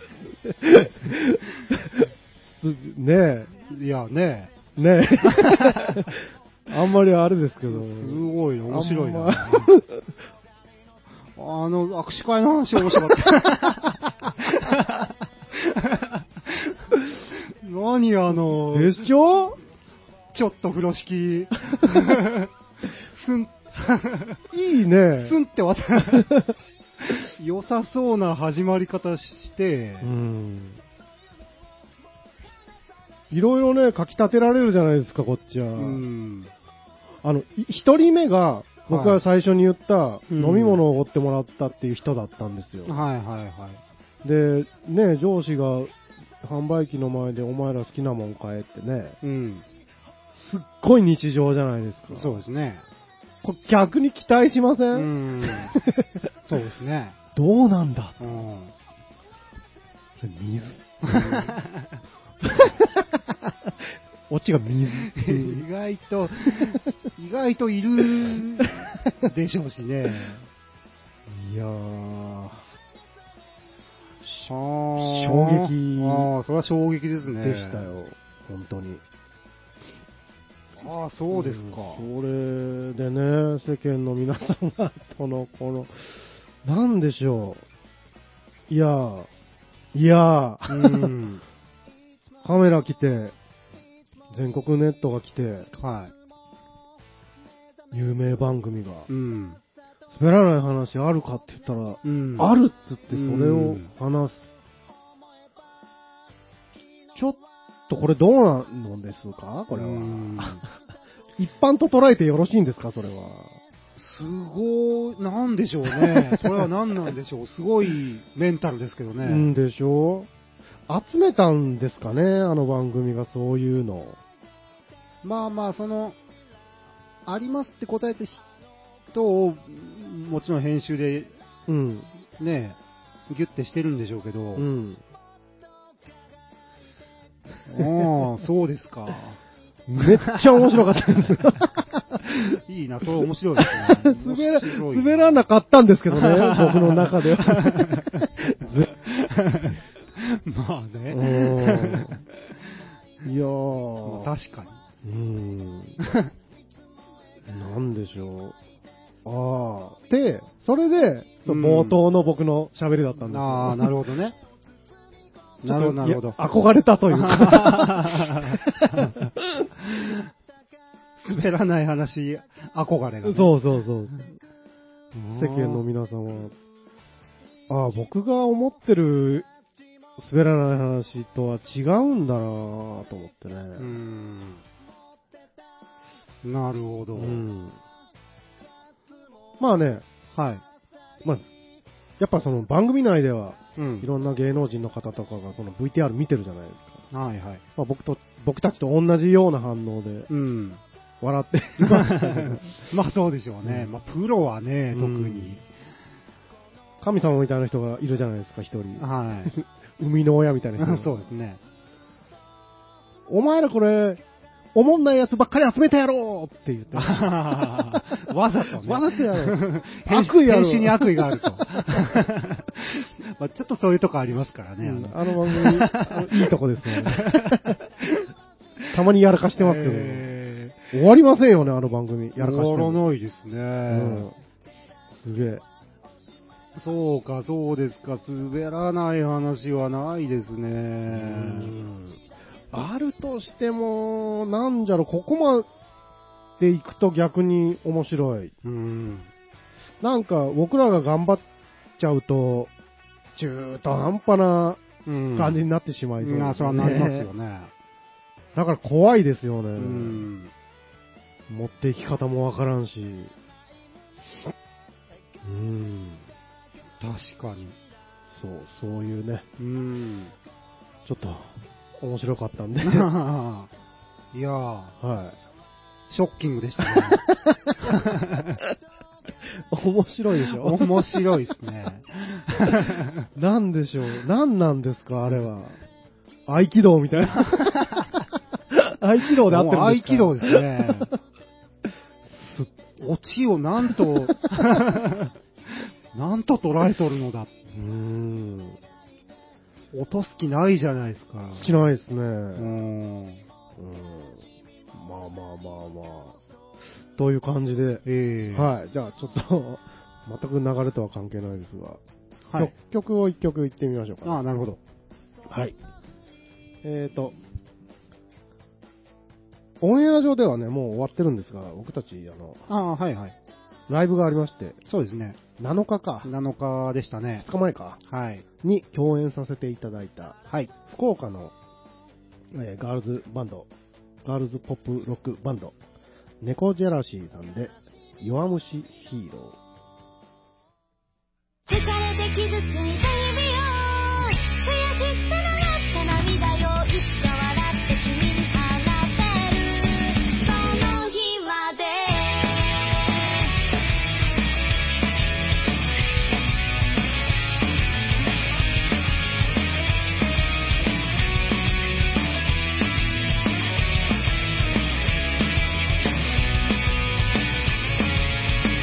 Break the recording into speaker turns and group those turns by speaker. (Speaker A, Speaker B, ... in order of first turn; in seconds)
Speaker A: 0.4-3.5, 4.8-10.1, 18.7-19.6, 24.5-25.4, 26.2-26.5, 30.0-30.8, 33.3-36.0, 37.2-43.0, 44.2-49.2, 50.3-52.4, 53.4-56.2, 57.4-58.4, 60.2-61.5, 62.4-63.0, 64.3-65.6, 71.3-72.7, 74.2-76.3, 77.4-79.0, 81.3-87.6, 88.7-89.3, 89.9-91.1, 92.4-93.3, 94.3-95.7, 97.9-99.1, 100.1-104.5, 107.2-110.7, 111.4-113.6, 116.0-116.7, 119.2-120.3, 120.9-124.2, 131.7-132.1, 134.6-135.0, 139.9-142.6, 143.2-148.9, 151.1-152.2, 153.2-154.3, 155.0-156.0, 157.5-158.6, 159.2-163.9, 165.7-169.7, 173.2-174.3, 175.3-176.5, 177.7-179.5, 180.2-183.9, 187.2-187.8, 189.6-190.0, 192.2-197.0, 197.8-200.3, 201.2-202.9, 204.9-205.6, 207.0-211.2, 213.3-214.2, 214.7-218.2, 218.8-221.8, 224.8-227.8, 228.9-230.3, 230.9-233.0, 233.9-234.3, 235.1-235.6, 241.1-242.2, 242.7-245.7, 246.6-248.5, 250.0-251.4, 252.0-252.7, 253.4-254.8, 255.3-257.3, 258.6-260.3, 261.5-263.3, 265.4-266.2, 268.3-269.4, 271.1-273.1, 275.0-275.4, 276.9-278.1, 279.7-281.1, 283.4-285.8, 286.5-287.9, 288.7-290.9, 292.3-292.7, 297.7-298.8, 301.6-302.8, 303.8-306.4, 307.2-312.0, 312.6-314.4, 315.5-315.8, 316.8-317.4, 319.8-322.6, 323.9-324.8, 325.6-326.3, 327.4-328.0, 328.6-331.5, 332.5-333.7, 334.2-335.8, 336.4-339.6
Speaker B: 3.7-4.5, 5.3-6.0, 7.7-9.7, 11.4-19.1, 20.3-22.5, 23.1-24.4, 25.1-26.4, 27.0-30.1, 35.8-36.5, 38.9-39.2, 40.3-40.8, 42.9-43.8, 49.2-49.6, 52.1-52.8, 54.9-55.8, 56.5-57.2, 58.2-58.7, 61.1-61.9, 65.1-70.5, 74.5-77.9, 80.8-82.1, 90.7-91.4, 95.8-96.1, 99.1-99.6, 102.0-102.5, 103.1-103.9, 109.7-110.6, 114.0-119.5, 125.2-126.2, 127.3-128.4, 129.1-131.3, 132.4-132.8, 133.3-134.7, 137.7-139.4, 140.0-140.9, 142.5-145.4, 146.1-152.2, 154.1-154.8, 156.0-156.3, 161.5-162.0, 163.3-164.4, 165.6-166.4, 167.1-169.3, 169.8-170.2, 171.2-173.6, 175.2-175.8, 183.8-184.6, 186.4-187.5, 190.3-190.6, 193.8-194.1, 197.1-197.6, 200.3-200.8, 201.8-205.7, 209.0-209.5, 210.8-211.6, 216.9-228.3, 229.6-230.8, 232.4-234.3, 236.8-241.7, 248.6-249.3, 255.1-255.6, 256.2-257.7, 259.8-260.5, 267.0-267.8, 269.6-270.3, 272.8-273.7, 274.3-275.0, 276.1-277.2, 277.9-278.6, 280.5-283.3, 287.4-288.1, 289.4-291.1, 293.0-297.5, 299.9-301.8, 302.6-303.4, 308.1-308.7, 312.5-312.7, 314.2-314.8, 322.7-323.4, 324.9-325.4, 326.2-327.5, 328.1-328.4
Speaker C: 341.7-353.5